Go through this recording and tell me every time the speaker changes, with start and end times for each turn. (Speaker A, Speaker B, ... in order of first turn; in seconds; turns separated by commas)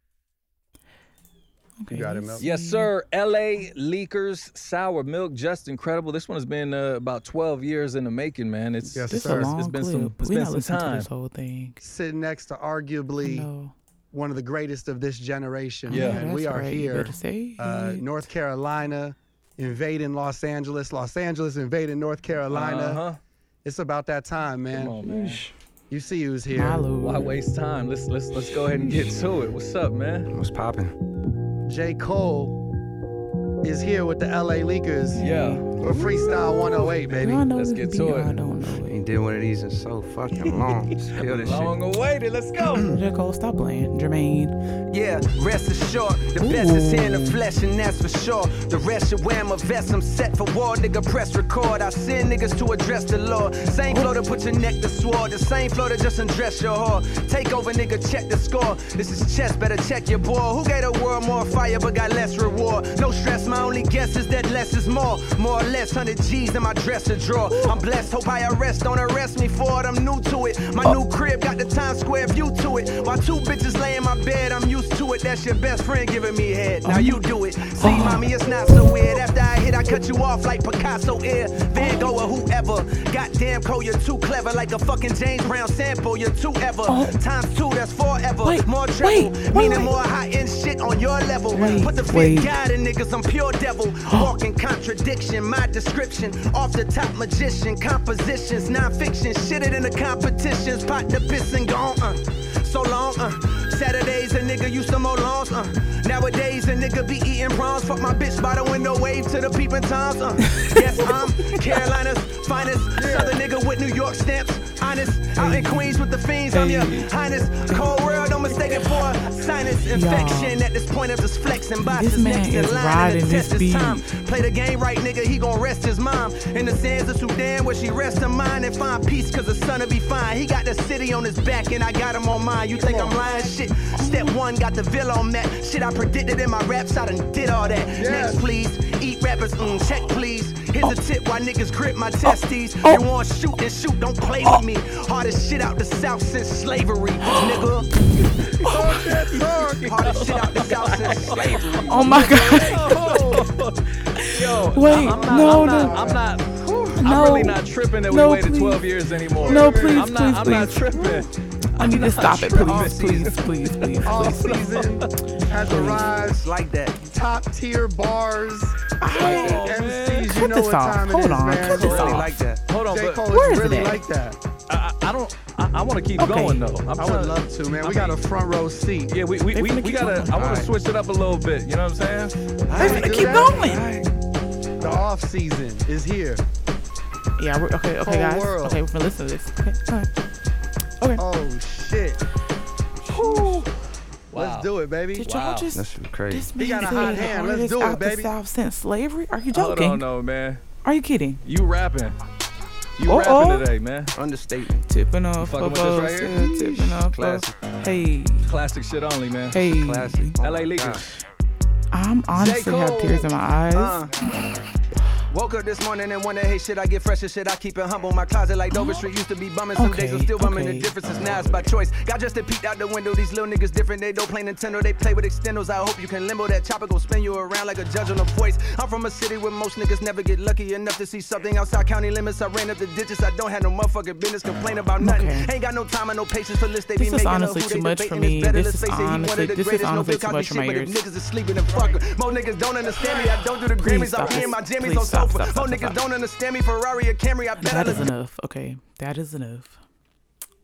Speaker A: 1.8-2.9, Speaker B: 1.9-2.5, Speaker C: 2.4-11.1, Speaker A: 8.9-11.8, Speaker B: 8.9-9.6, Speaker B: 11.8-13.5, Speaker A: 13.2-13.8, Speaker B: 14.1-23.1, Speaker A: 15.9-18.2, Speaker C: 15.9-16.3, Speaker C: 22.5-23.2, Speaker B: 23.6-25.1, Speaker C: 24.7-25.5, Speaker A: 25.1-25.4, Speaker B: 25.9-26.9, Speaker A: 26.5-27.3, Speaker C: 27.0-30.3, Speaker D: 28.6-29.2, Speaker D: 30.3-30.9, Speaker B: 31.7-32.6, Speaker B: 33.6-37.5, Speaker A: 35.1-39.0, Speaker C: 35.2-35.7, Speaker C: 37.5-38.4, Speaker D: 38.9-41.8, Speaker C: 41.3-42.9, Speaker A: 42.9-44.5, Speaker E: 44.9-147.9, Speaker A: 46.4-47.4, Speaker A: 53.9-54.1, Speaker A: 67.5-67.8, Speaker A: 76.8-77.2, Speaker A: 77.8-79.0, Speaker A: 81.8-82.2, Speaker A: 86.9-87.2, Speaker A: 88.4-90.0, Speaker A: 91.5-92.5, Speaker A: 94.1-94.3, Speaker A: 110.6-111.6, Speaker B: 113.0-113.4, Speaker A: 115.4-117.1, Speaker A: 118.5-119.2, Speaker A: 119.9-120.6, Speaker A: 121.9-124.0, Speaker B: 132.8-133.3, Speaker A: 133.9-134.3, Speaker B: 137.9-138.4, Speaker A: 142.2-143.0, Speaker A: 147.3-147.6, Speaker A: 148.2-149.4, Speaker B: 148.7-150.0, Speaker C: 149.0-165.1, Speaker E: 149.8-151.3, Speaker B: 151.3-153.4, Speaker A: 151.5-153.2, Speaker A: 154.2-156.1, Speaker B: 155.1-156.3, Speaker A: 157.0-164.6, Speaker B: 159.4-160.1, Speaker B: 162.7-162.9, Speaker E: 162.9-163.3, Speaker B: 164.0-166.4, Speaker A: 165.6-166.2, Speaker C: 165.7-166.0, Speaker E: 166.1-167.0, Speaker B: 167.1-172.2, Speaker A: 169.0-172.3, Speaker C: 169.1-170.4, Speaker C: 171.7-173.7, Speaker E: 171.7-172.6, Speaker B: 172.8-174.4, Speaker A: 173.3-174.0, Speaker C: 174.7-178.2, Speaker A: 176.2-176.8, Speaker B: 176.9-179.2, Speaker C: 179.1-182.3, Speaker A: 179.5-180.7, Speaker B: 182.7-184.0, Speaker A: 182.8-183.8, Speaker B: 184.8-186.4, Speaker A: 187.4-190.1, Speaker B: 188.0-188.8, Speaker A: 191.0-191.2, Speaker B: 191.2-192.2, Speaker A: 193.1-193.7, Speaker B: 193.2-193.6, Speaker B: 194.3-195.3, Speaker C: 194.3-195.7, Speaker A: 195.1-200.1, Speaker D: 195.7-196.5, Speaker B: 196.6-198.3, Speaker C: 199.5-200.7, Speaker A: 200.8-201.4, Speaker C: 201.4-202.2, Speaker C: 203.0-204.2, Speaker A: 203.1-203.7, Speaker D: 204.2-204.8, Speaker A: 204.9-208.5, Speaker C: 205.4-206.5, Speaker C: 208.5-209.7, Speaker A: 209.5-210.4, Speaker D: 209.7-211.0, Speaker C: 210.4-211.0, Speaker A: 211.9-214.1, Speaker E: 212.4-214.1, Speaker E: 215.3-248.1, Speaker A: 218.7-219.1, Speaker A: 219.8-221.7, Speaker A: 235.0-235.5, Speaker A: 236.9-241.0, Speaker A: 243.8-246.0, Speaker A: 247.6-249.8